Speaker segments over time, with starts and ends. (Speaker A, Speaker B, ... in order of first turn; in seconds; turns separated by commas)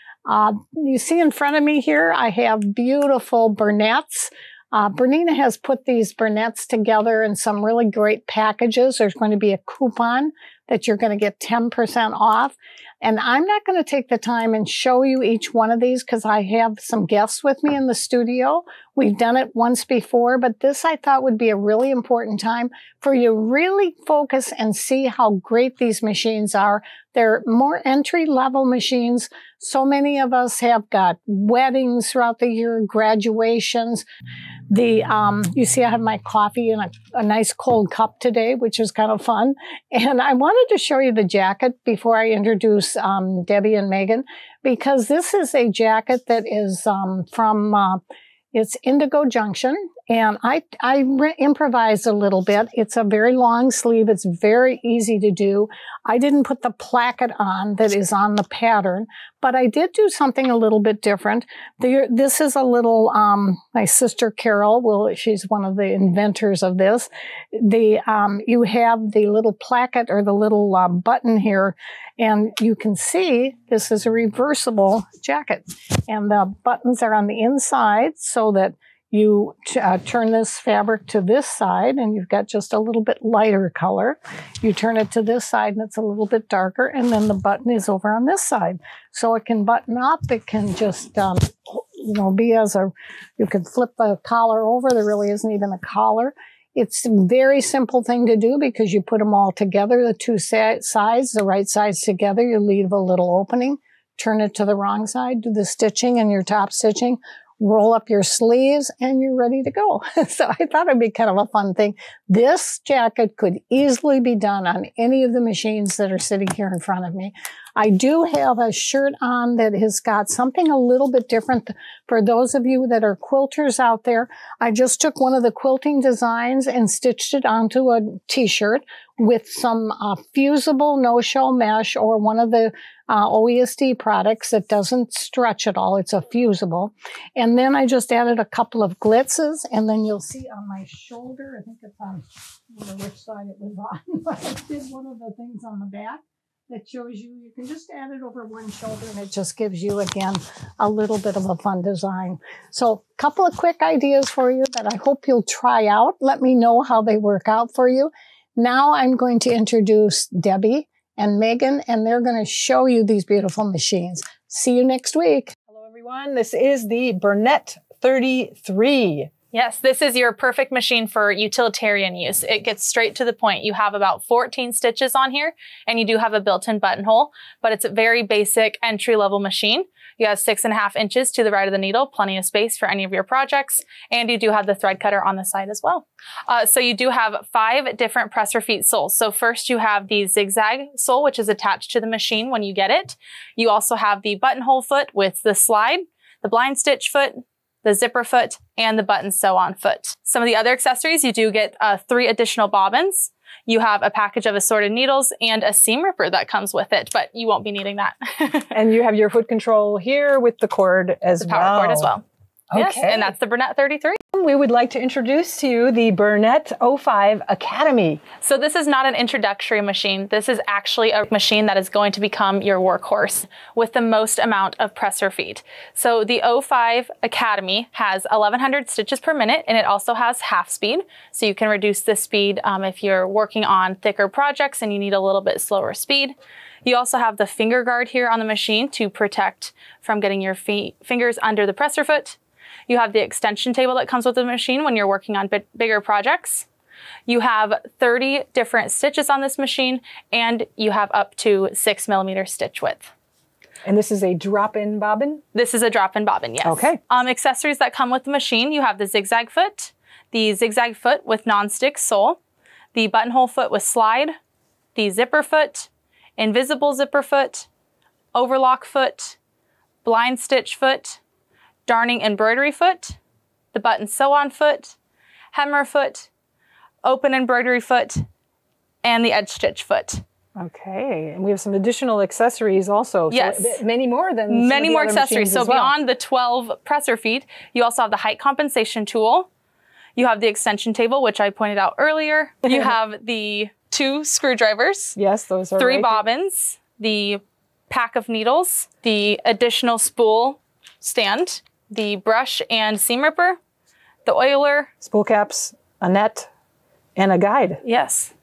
Speaker A: 0.3-34.0, Speaker A: 34.7-48.0, Speaker A: 48.5-165.6, Speaker B: 165.7-169.3, Speaker C: 169.5-208.7, Speaker B: 208.7-212.1, Speaker C: 211.4-214.2, Speaker B: 212.7-213.3, Speaker B: 214.3-218.2, Speaker C: 218.4-246.7, Speaker C: 247.3-253.1, Speaker B: 253.8-255.4, Speaker C: 255.5-262.4, Speaker B: 256.6-257.0, Speaker C: 262.9-264.4, Speaker C: 264.9-267.7, Speaker C: 268.3-269.4, Speaker C: 270.0-271.2, Speaker C: 271.9-273.2, Speaker C: 273.7-275.0, Speaker C: 275.5-276.3, Speaker C: 277.0-278.3, Speaker C: 279.0-280.2, Speaker B: 280.6-285.9, Speaker C: 283.3-283.8, Speaker C: 284.5-289.5, Speaker C: 290.2-295.2, Speaker B: 292.7-292.9, Speaker B: 295.2-296.2, Speaker C: 295.8-303.6, Speaker C: 304.3-304.9, Speaker B: 305.0-306.5, Speaker B: 307.2-307.8, Speaker C: 307.8-308.3